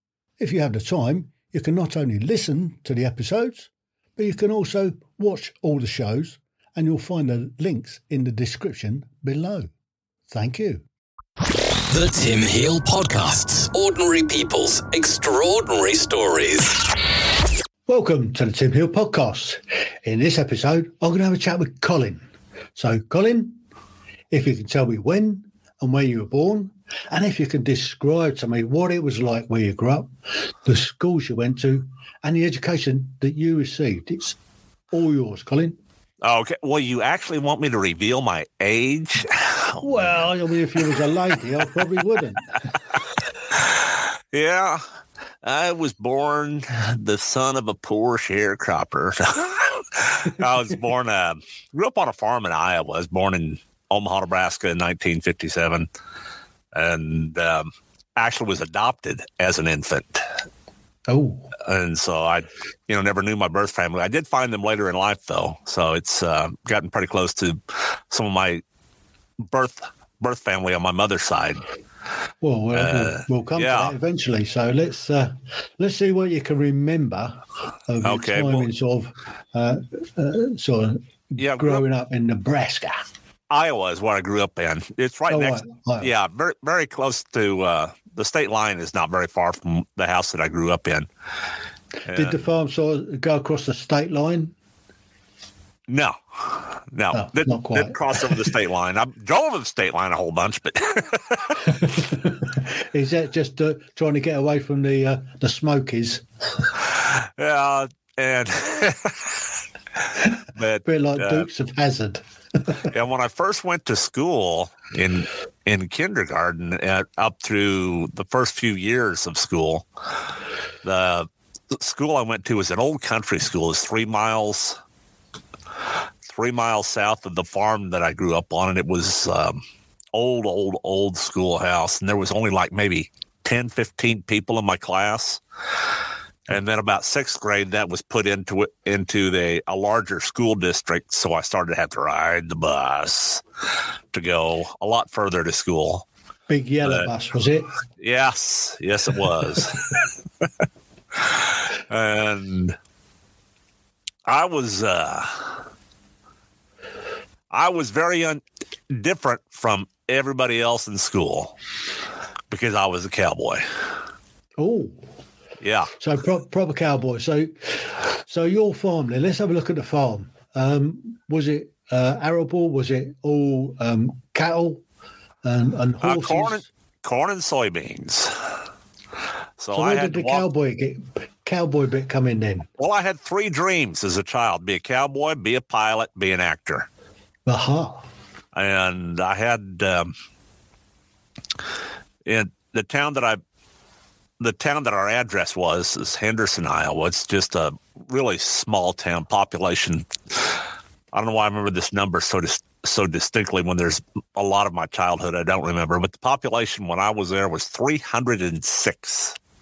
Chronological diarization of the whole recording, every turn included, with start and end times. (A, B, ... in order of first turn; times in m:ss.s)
0:00.4-0:09.7 A
0:10.3-0:10.9 A
0:11.9-0:16.8 B
0:17.9-0:22.2 A
0:22.8-0:23.6 A
0:24.3-0:34.4 A
0:34.9-0:35.8 A
0:36.2-0:40.2 C
0:39.8-0:42.6 A
0:43.5-0:44.8 C
0:45.4-0:55.9 C
0:56.7-1:00.3 C
1:01.1-1:01.5 A
1:01.6-1:08.6 C
1:09.4-1:11.6 C
1:12.4-1:23.0 A
1:12.7-1:14.0 C
1:18.0-1:18.7 C
1:21.4-1:21.8 C
1:23.5-1:31.1 C
1:25.3-1:26.1 A
1:32.1-1:32.4 C
1:32.1-1:34.6 A
1:35.9-1:41.8 C
1:37.1-1:38.4 A
1:41.8-1:46.2 A
1:46.9-1:49.4 C
1:50.5-1:51.5 C
1:50.8-1:52.9 A
1:52.9-1:59.9 C
2:00.8-2:04.8 C
2:06.2-2:15.4 C
2:16.5-2:23.4 C
2:24.1-2:26.1 C
2:26.5-2:27.7 A
2:26.8-2:27.1 C
2:28.0-2:30.5 C
2:31.1-2:32.8 C
2:34.2-2:35.6 C
2:37.5-2:41.6 C
2:42.5-2:43.6 C
2:44.6-2:45.0 A
2:45.6-2:45.9 C
2:46.0-2:54.8 A
2:55.4-2:56.6 A
2:56.0-2:58.4 C
2:59.6-3:00.5 C
2:59.7-3:02.7 A
3:02.8-3:06.9 C
3:07.5-3:08.1 A
3:08.5-3:10.1 C
3:12.2-3:13.4 C
3:14.4-3:20.6 C
3:21.1-3:29.4 C